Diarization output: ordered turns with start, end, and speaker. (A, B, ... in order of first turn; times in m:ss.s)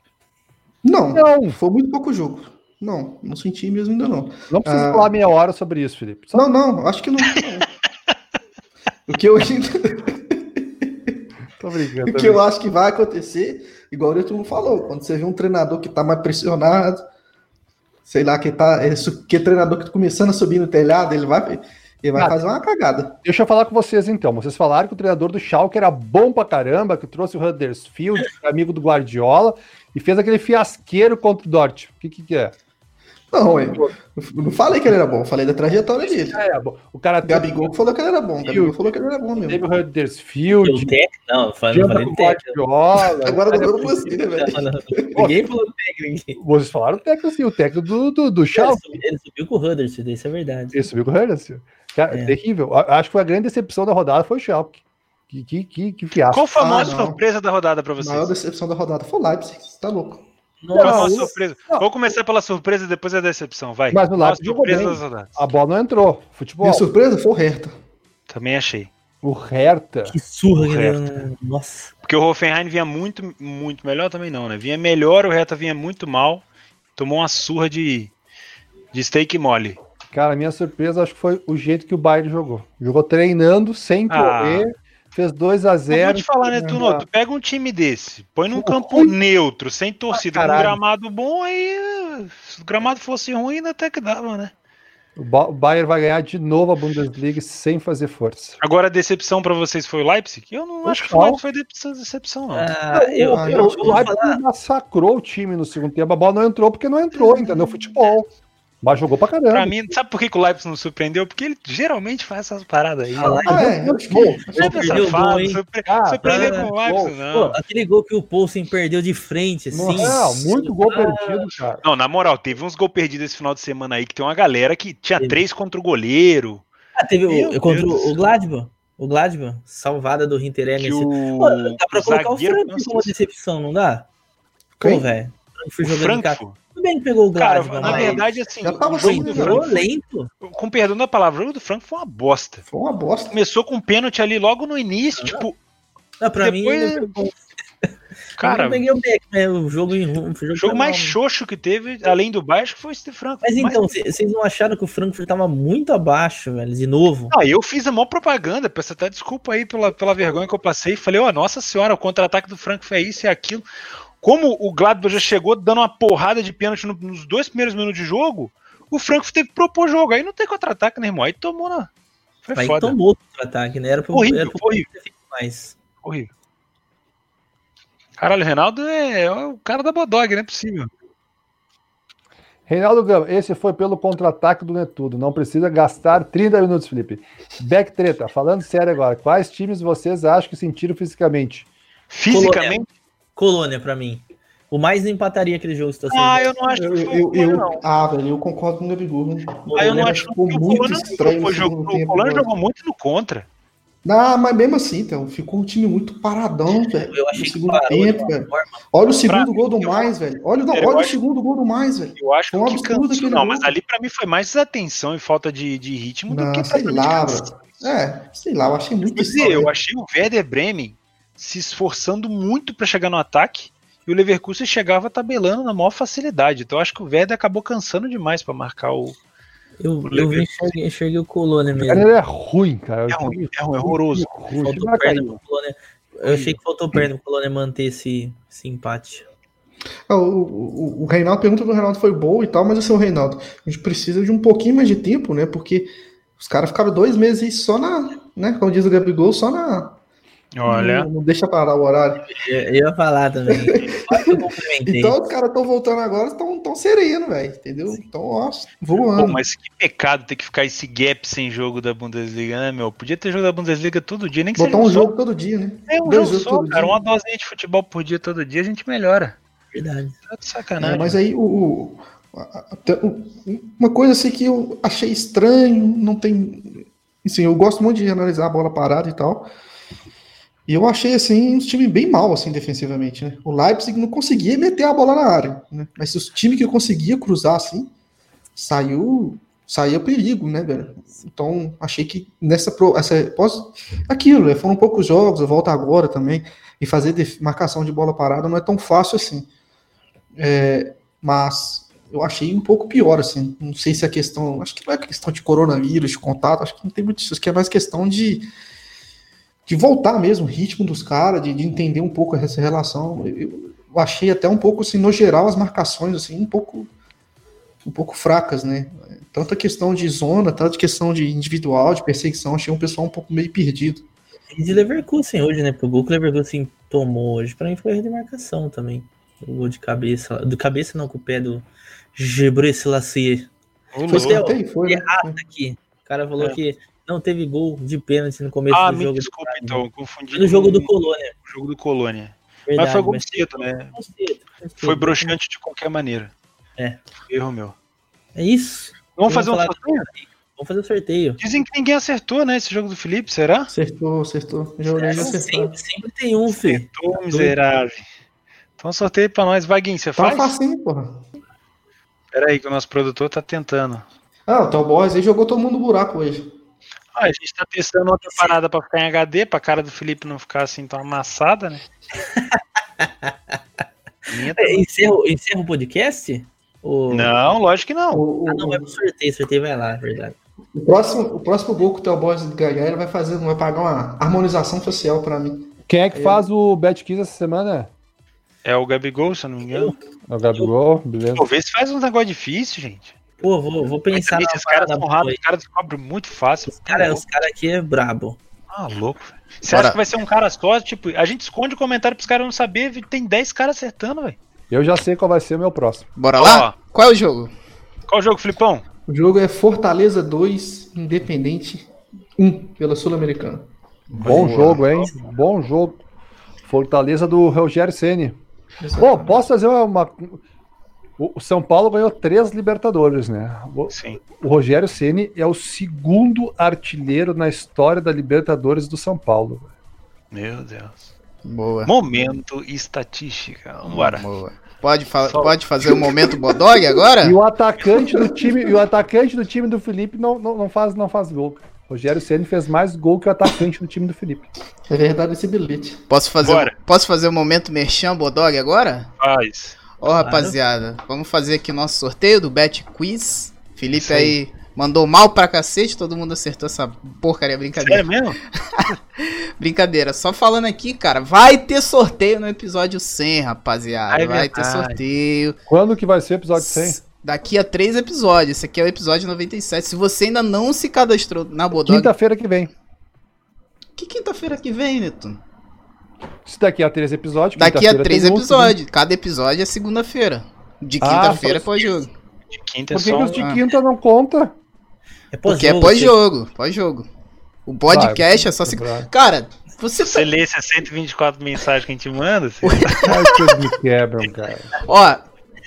0:00.8-0:05.1 A
0:01.1-0:01.6 B
0:04.5-0:06.5 B
0:06.3-0:07.7 A
0:09.1-0:11.1 A
0:11.6-0:12.4 B
0:12.1-0:17.0 A
0:18.1-0:23.2 A
0:22.2-0:22.4 B
0:23.2-0:32.5 B
0:33.3-0:36.4 A
0:36.3-0:37.8 B
0:37.2-0:39.6 A
0:38.4-0:38.8 B
0:39.4-0:40.9 B
0:40.5-0:42.6 C
0:41.7-0:43.7 B
0:43.2-0:45.3 A
0:43.5-0:46.4 C
0:45.2-0:45.4 B
0:46.4-0:49.0 B
0:48.5-0:50.8 C
0:50.7-0:54.8 B
0:52.1-0:52.4 C
0:55.3-0:56.9 B
0:56.3-0:58.3 D
0:56.6-0:57.2 A
0:58.0-1:00.2 A
1:00.6-1:01.4 C
1:00.8-1:01.8 B
1:00.8-1:05.4 D
1:03.9-1:06.8 B
1:06.6-1:07.7 A
1:08.3-1:08.9 D
1:09.2-1:10.2 B
1:10.1-1:11.9 C
1:10.6-1:11.0 D
1:12.0-1:16.5 D
1:17.0-1:18.1 D
1:18.9-1:19.8 D
1:20.1-1:27.0 B
1:24.1-1:24.7 D
1:25.9-1:34.5 D
1:28.5-1:29.1 B
1:30.1-1:30.8 B
1:35.2-1:38.6 B
1:38.6-1:42.7 D
1:40.8-1:41.4 B
1:42.5-1:44.4 C
1:42.9-1:48.3 B
1:43.3-1:44.1 A
1:47.2-1:47.7 A
1:48.8-1:49.7 B
1:49.5-1:53.7 D
1:53.2-1:55.6 C
1:53.5-1:55.1 A
1:54.5-1:57.6 D
1:55.9-1:57.2 B
1:56.2-1:56.7 C
1:57.3-2:01.5 C
1:59.7-2:01.8 B
2:01.8-2:06.7 D
2:07.0-2:14.1 C
2:07.4-2:08.2 D
2:10.8-2:13.1 D
2:14.8-2:15.1 A
2:14.8-2:18.2 C
2:15.8-2:16.6 D
2:17.4-2:19.9 D
2:17.8-2:19.7 A
2:19.0-2:20.3 C
2:20.4-2:22.6 D
2:22.7-2:23.3 A
2:23.3-2:25.6 D
2:25.2-2:25.4 C
2:26.2-2:31.2 C
2:26.4-2:27.1 D
2:28.4-2:28.8 D
2:30.6-2:33.9 D
2:33.4-2:37.3 C
2:37.3-2:43.6 D
2:44.2-2:51.9 D
2:52.4-2:53.0 D
2:52.6-2:55.8 C
2:54.1-2:54.9 D
2:56.0-2:56.3 D
2:58.2-3:00.9 D
3:02.7-3:11.7 B
3:12.1-3:12.9 D
3:12.3-3:12.8 C
3:13.4-3:16.5 C
3:16.1-3:18.0 D
3:16.8-3:22.5 A
3:19.7-3:20.3 C
3:19.8-3:23.5 D
3:24.0-3:33.7 A
3:27.1-3:28.8 C
3:29.3-3:30.1 D
3:30.7-3:31.2 D
3:32.2-3:37.8 D
3:36.3-3:39.7 A
3:39.0-3:49.2 D
3:49.8-3:52.1 C
3:50.1-3:50.8 D
3:51.8-3:55.4 B
3:53.1-3:54.3 D
3:54.6-3:59.3 C
4:00.1-4:10.0 A
4:10.6-4:11.1 D
4:10.7-4:12.3 A
4:12.3-4:15.2 C
4:13.5-4:19.4 A
4:19.0-4:25.1 D
4:24.6-4:27.0 A
4:25.9-4:29.4 D
4:29.7-4:30.2 C
4:30.3-4:31.2 D
4:30.8-4:39.5 A
4:40.7-4:47.9 A
4:48.6-4:59.5 A
5:00.4-5:08.5 A
5:09.7-5:16.9 A
5:17.8-5:24.0 A
5:24.5-5:33.5 C
5:33.9-5:34.4 D
5:34.1-5:35.4 A
5:34.1-5:41.3 C
5:38.7-5:40.9 D
5:41.4-5:44.0 D
5:42.7-5:43.4 C
5:43.9-5:45.3 C
5:44.8-5:46.3 D
5:47.3-5:47.8 D
5:48.4-5:51.4 C
5:49.2-5:50.1 D
5:51.4-5:53.7 D
5:53.7-5:55.8 A
5:54.9-5:57.6 C
5:56.5-5:58.0 D
5:58.8-6:00.6 D
6:00.2-6:01.2 A
6:02.3-6:04.0 D
6:04.5-6:06.5 A
6:07.2-6:11.8 D
6:12.2-6:13.6 C
6:14.3-6:14.8 D
6:14.6-6:17.3 C
6:17.1-6:18.2 D
6:18.1-6:18.9 A
6:18.5-6:20.4 C
6:20.8-6:26.5 A
6:25.9-6:27.9 B
6:28.6-6:30.0 D
6:29.7-6:30.0 C
6:30.3-6:31.5 B
6:31.4-6:33.2 D
6:33.4-6:35.4 C
6:34.1-6:37.2 D
6:36.7-6:38.4 C
6:38.7-6:44.4 D
6:39.7-6:40.0 E
6:44.7-6:46.1 B
6:46.2-6:47.5 E
6:46.4-6:46.8 D
6:48.1-6:48.8 D
6:49.1-6:53.7 A
6:54.1-6:56.0 B
6:54.2-6:54.5 A
6:54.3-6:54.8 E
6:56.6-6:58.4 B
6:58.8-6:59.4 A
6:59.0-7:00.4 B
7:01.2-7:09.7 B
7:03.9-7:04.2 D
7:10.3-7:11.0 D
7:11.4-7:11.9 E
7:11.9-7:14.2 D
7:13.9-7:17.4 E
7:15.2-7:15.5 D
7:17.2-7:24.5 B
7:18.0-7:18.7 A
7:24.9-7:26.0 A
7:26.1-7:29.1 E
7:26.4-7:26.7 D
7:29.2-7:29.8 D
7:30.0-7:45.6 E
7:30.2-7:30.6 C
7:33.9-7:34.4 D
7:37.8-7:38.4 D
7:44.1-7:45.0 D
7:45.7-7:47.0 B
7:46.6-7:52.1 E
7:51.9-7:52.7 B
7:54.0-7:55.4 E
7:56.4-7:58.8 B
7:57.6-8:02.1 E
8:01.0-8:01.7 B
8:02.5-8:03.4 D
8:02.9-8:04.5 B
8:05.3-8:06.2 C
8:05.5-8:07.1 E
8:07.7-8:10.3 E
8:07.9-8:09.1 B
8:10.0-8:13.2 D
8:12.6-8:13.4 E
8:13.0-8:14.7 B
8:14.8-8:15.2 E